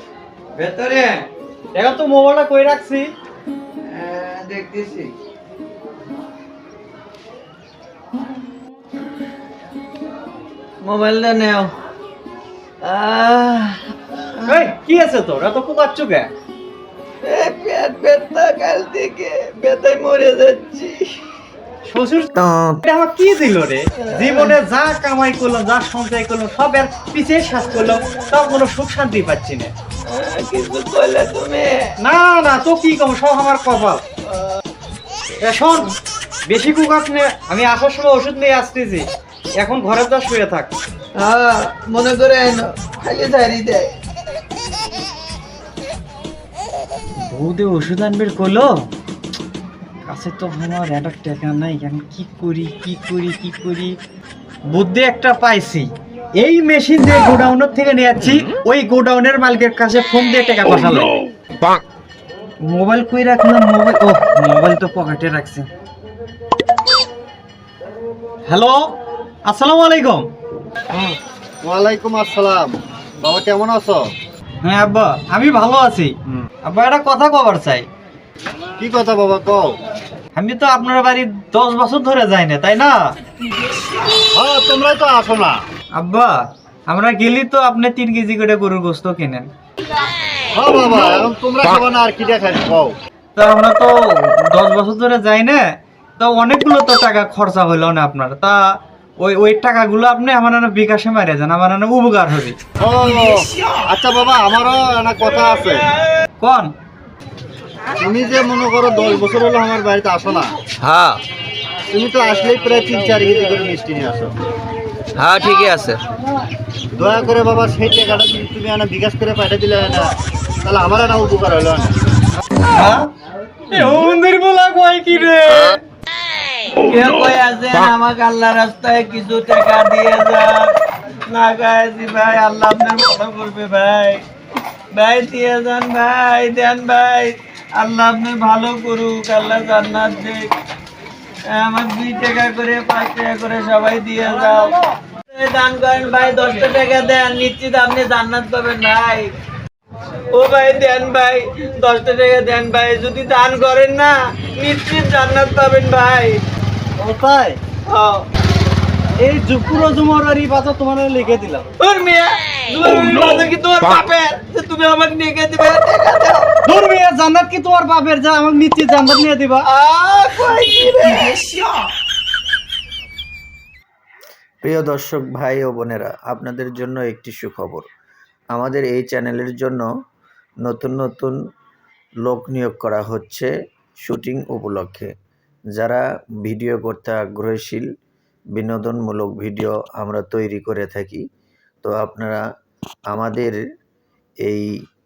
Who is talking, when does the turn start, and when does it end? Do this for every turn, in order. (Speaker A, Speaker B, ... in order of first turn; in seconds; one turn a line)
Speaker A: 0.5-1.3
Speaker B: 1.7-3.1
Speaker A: 3.9-5.1
Speaker A: 10.8-11.7
Speaker A: 12.8-14.6
Speaker B: 14.4-16.3
Speaker A: 17.2-21.1
Speaker B: 21.9-22.3
Speaker C: 22.3-22.8
Speaker B: 22.8-29.7
Speaker A: 24.1-24.6
Speaker A: 30.1-31.9
Speaker B: 32.0-34.0
Speaker B: 35.4-35.9
Speaker B: 36.5-39.0
Speaker B: 39.6-40.7
Speaker A: 41.2-43.9
Speaker B: 47.2-48.7
Speaker B: 50.0-53.9
Speaker B: 54.7-61.1
Speaker B: 62.6-65.7
Speaker B: 68.5-68.9
Speaker B: 69.4-70.3
Speaker D: 70.9-74.1
Speaker B: 74.6-77.9
Speaker D: 78.8-79.8
Speaker B: 80.3-83.1
Speaker D: 84.3-85.6
Speaker B: 85.9-89.5
Speaker D: 90.5-92.9
Speaker B: 93.3-95.6
Speaker B: 96.2-98.6
Speaker B: 99.2-102.6
Speaker D: 102.8-105.8
Speaker B: 106.4-106.7
Speaker D: 108.0-110.5
Speaker A: 110.8-111.2
Speaker D: 111.9-114.3
Speaker A: 115.2-116.0
Speaker D: 116.9-120.1
Speaker D: 120.6-121.9
Speaker B: 122.7-123.1
Speaker B: 123.7-125.8
Speaker A: 126.8-130.7
Speaker A: 131.3-134.2
Speaker A: 134.9-140.5
Speaker A: 141.5-144.8
Speaker A: 145.3-149.3
Speaker A: 150.3-156.4
Speaker B: 157.0-157.6
Speaker A: 157.9-158.2
Speaker B: 159.2-161.7
Speaker A: 161.8-166.5
Speaker B: 166.6-169.7
Speaker A: 169.7-171.7
Speaker C: 174.6-177.9
Speaker C: 178.5-179.9
Speaker C: 180.6-181.4
Speaker C: 182.2-183.5
Speaker C: 184.0-185.1
Speaker C: 185.7-187.8
Speaker C: 188.5-191.2
Speaker C: 191.8-192.4
Speaker C: 193.1-193.6
Speaker C: 194.4-194.7